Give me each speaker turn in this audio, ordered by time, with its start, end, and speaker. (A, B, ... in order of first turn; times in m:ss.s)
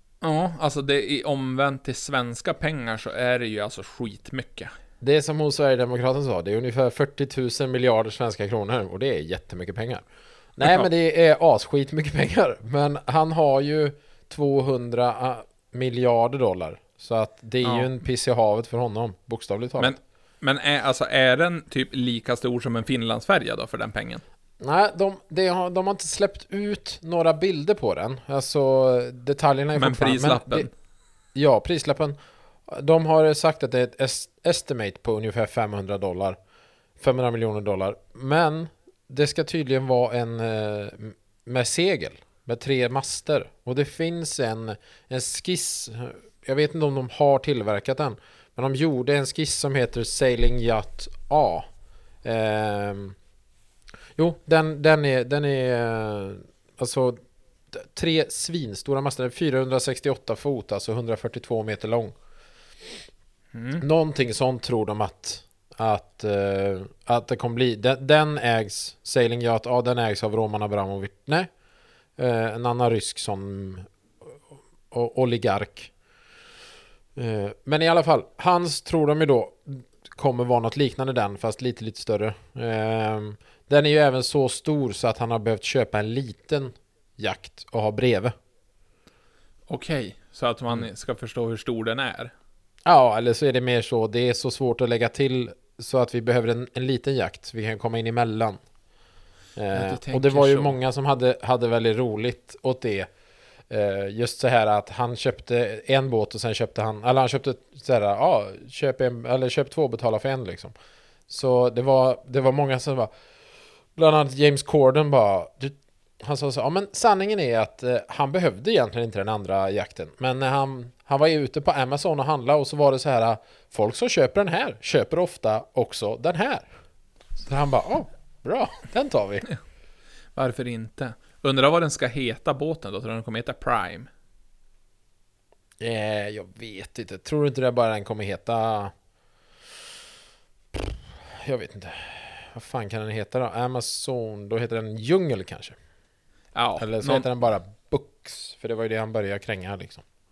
0:00.2-0:04.7 A
0:05.0-0:20.0 B
0:19.8-0:24.2 A
0:24.6-0:30.7 B
0:29.8-0:30.7 A
0:31.3-0:36.4 B
0:37.0-0:51.7 B
0:52.2-0:53.2 B
0:54.2-1:02.2 B
1:03.5-1:03.8 A
1:03.8-1:11.5 B
1:12.2-1:13.9 B
1:14.9-1:15.9 B
1:17.2-1:28.3 B
1:29.7-1:32.3 A
1:32.8-1:38.6 B
1:39.6-1:43.1 B
1:39.7-1:40.8 A
1:43.7-1:50.7 B
1:51.3-1:53.1 B
1:53.9-2:06.7 B
2:07.4-2:09.4 B
2:10.3-2:14.1 A
2:15.8-2:18.9 B
2:20.7-2:25.8 B
2:26.5-2:27.2 A
2:26.8-2:30.0 B